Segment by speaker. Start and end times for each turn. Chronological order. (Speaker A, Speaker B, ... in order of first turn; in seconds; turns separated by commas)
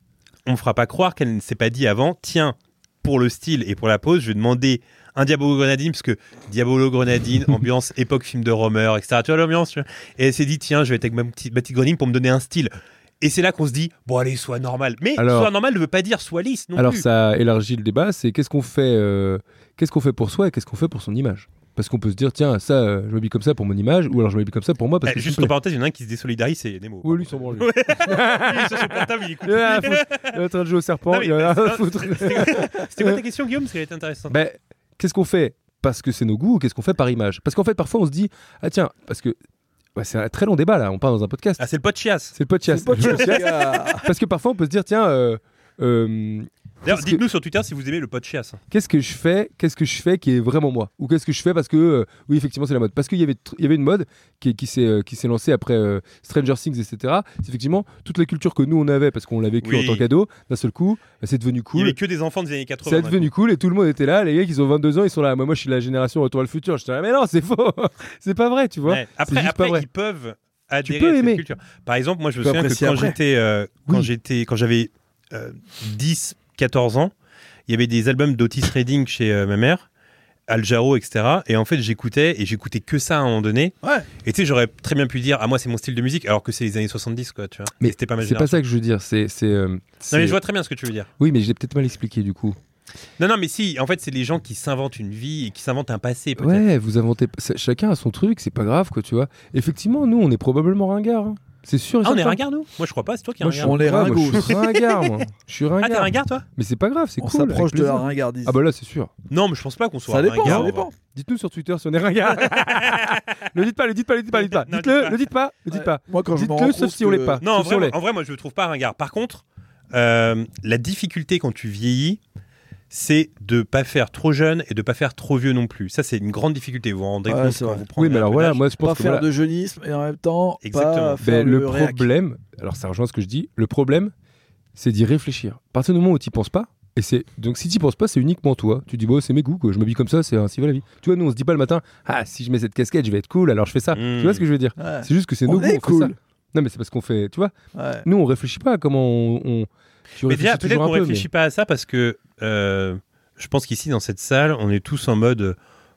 Speaker A: 0.5-17.1, Speaker B: 15.2-15.5, Speaker B: 16.8-25.5, Speaker A: 25.0-30.4, Speaker B: 27.0-33.2, Speaker A: 31.1-34.4, Speaker B: 34.3-39.4, Speaker B: 39.9-41.6, Speaker A: 41.6-42.4, Speaker B: 42.3-47.2, Speaker C: 42.7-44.0, Speaker A: 43.0-43.4, Speaker A: 46.8-48.6, Speaker B: 48.7-62.0, Speaker A: 59.6-60.0, Speaker A: 61.7-63.3, Speaker B: 62.8-69.8, Speaker A: 68.8-77.1, Speaker B: 70.8-71.4, Speaker C: 72.4-73.2, Speaker A: 77.7-79.8, Speaker A: 80.5-88.6, Speaker B: 87.8-90.4, Speaker A: 90.1-91.1, Speaker B: 91.2-92.6, Speaker A: 93.2-96.7, Speaker B: 96.4-102.4, Speaker A: 102.0-105.1, Speaker B: 103.4-109.1, Speaker C: 103.6-104.5, Speaker A: 105.8-106.4, Speaker C: 107.2-108.6, Speaker A: 109.3-110.9, Speaker C: 110.0-110.9, Speaker B: 110.4-118.0, Speaker A: 112.4-113.2, Speaker A: 114.4-115.2, Speaker C: 115.7-117.4, Speaker A: 117.4-122.2, Speaker A: 122.9-128.7, Speaker C: 127.3-127.8, Speaker B: 128.0-129.3, Speaker C: 128.8-132.1, Speaker A: 130.6-131.2, Speaker B: 131.2-134.1, Speaker B: 134.7-151.3, Speaker A: 143.9-144.4, Speaker C: 144.8-146.2, Speaker C: 147.7-148.1, Speaker A: 150.2-155.6